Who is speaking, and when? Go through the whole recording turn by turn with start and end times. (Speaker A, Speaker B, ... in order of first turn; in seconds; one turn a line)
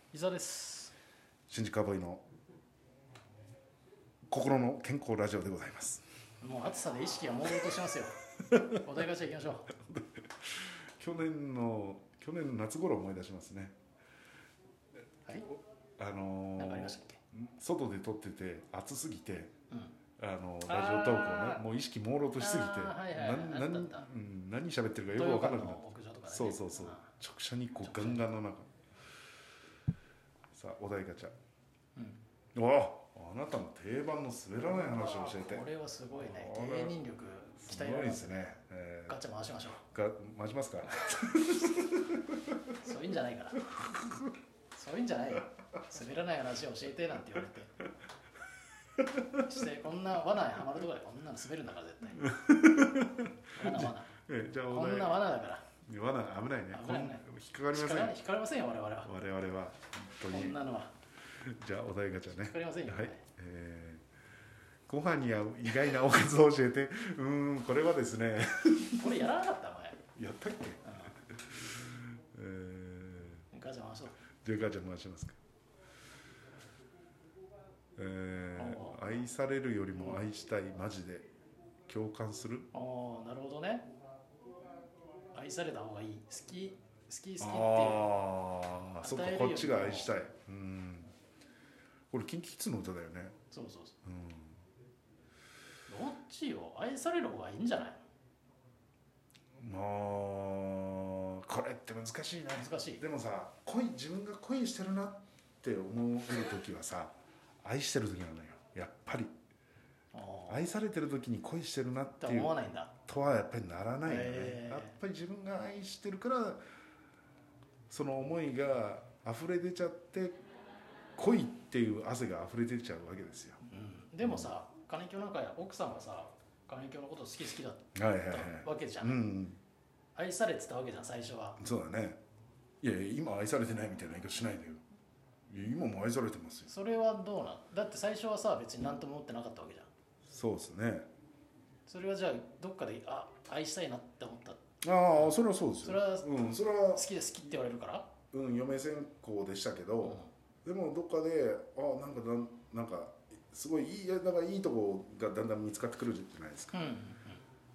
Speaker A: 0.1-0.9
Speaker B: 1.5-2.2
Speaker B: 4.3-6.0
Speaker A: 6.4-9.7
Speaker B: 9.8-13.7
Speaker B: 16.0-19.5
Speaker A: 16.6-17.2
Speaker B: 20.2-28.7
Speaker A: 20.6-21.6
Speaker A: 22.4-24.1
Speaker A: 25.1-27.1
Speaker A: 27.8-28.3
Speaker B: 30.5-31.3
Speaker A: 32.0-32.2
Speaker B: 32.5-37.0
Speaker A: 34.6-38.5
Speaker B: 37.6-39.2
Speaker A: 39.1-39.8
Speaker B: 39.8-42.5
Speaker A: 42.8-43.7
Speaker A: 44.7-47.7
Speaker B: 49.0-49.5
Speaker A: 49.4-52.3
Speaker B: 52.2-55.2
Speaker A: 53.5-54.1
Speaker A: 54.7-55.7
Speaker B: 55.8-58.2
Speaker A: 56.7-59.1
Speaker B: 59.0-60.6
Speaker A: 60.3-60.9
Speaker B: 61.4-64.0
Speaker A: 62.3-63.2
Speaker B: 64.9-69.2
Speaker A: 69.0-70.0
Speaker B: 70.1-73.5
Speaker A: 70.8-71.2
Speaker A: 73.5-74.2
Speaker B: 74.3-75.4
Speaker B: 78.0-81.3
Speaker A: 78.5-79.2
Speaker A: 79.9-80.2
Speaker B: 81.9-82.7
Speaker A: 82.7-83.9
Speaker A: 85.3-88.1
Speaker B: 87.4-91.1
Speaker A: 89.0-90.1
Speaker B: 92.1-93.4
Speaker A: 93.5-94.0
Speaker B: 94.0-94.6
Speaker A: 95.9-98.0
Speaker B: 99.6-109.3
Speaker A: 102.6-103.0
Speaker A: 110.1-110.7
Speaker B: 110.5-116.6
Speaker A: 112.2-113.0
Speaker A: 114.0-115.0
Speaker B: 117.9-120.3
Speaker B: 121.2-123.6
Speaker A: 123.6-129.2
Speaker B: 124.2-124.5
Speaker B: 127.9-129.6
Speaker A: 130.2-131.6
Speaker B: 131.6-132.2
Speaker B: 132.8-134.8
Speaker B: 135.5-136.7
Speaker A: 136.7-139.9
Speaker B: 140.2-141.1
Speaker A: 141.9-144.6
Speaker B: 144.8-147.1
Speaker A: 145.1-146.4
Speaker A: 146.9-148.1
Speaker B: 148.3-156.7
Speaker A: 150.0-150.3
Speaker A: 156.7-157.4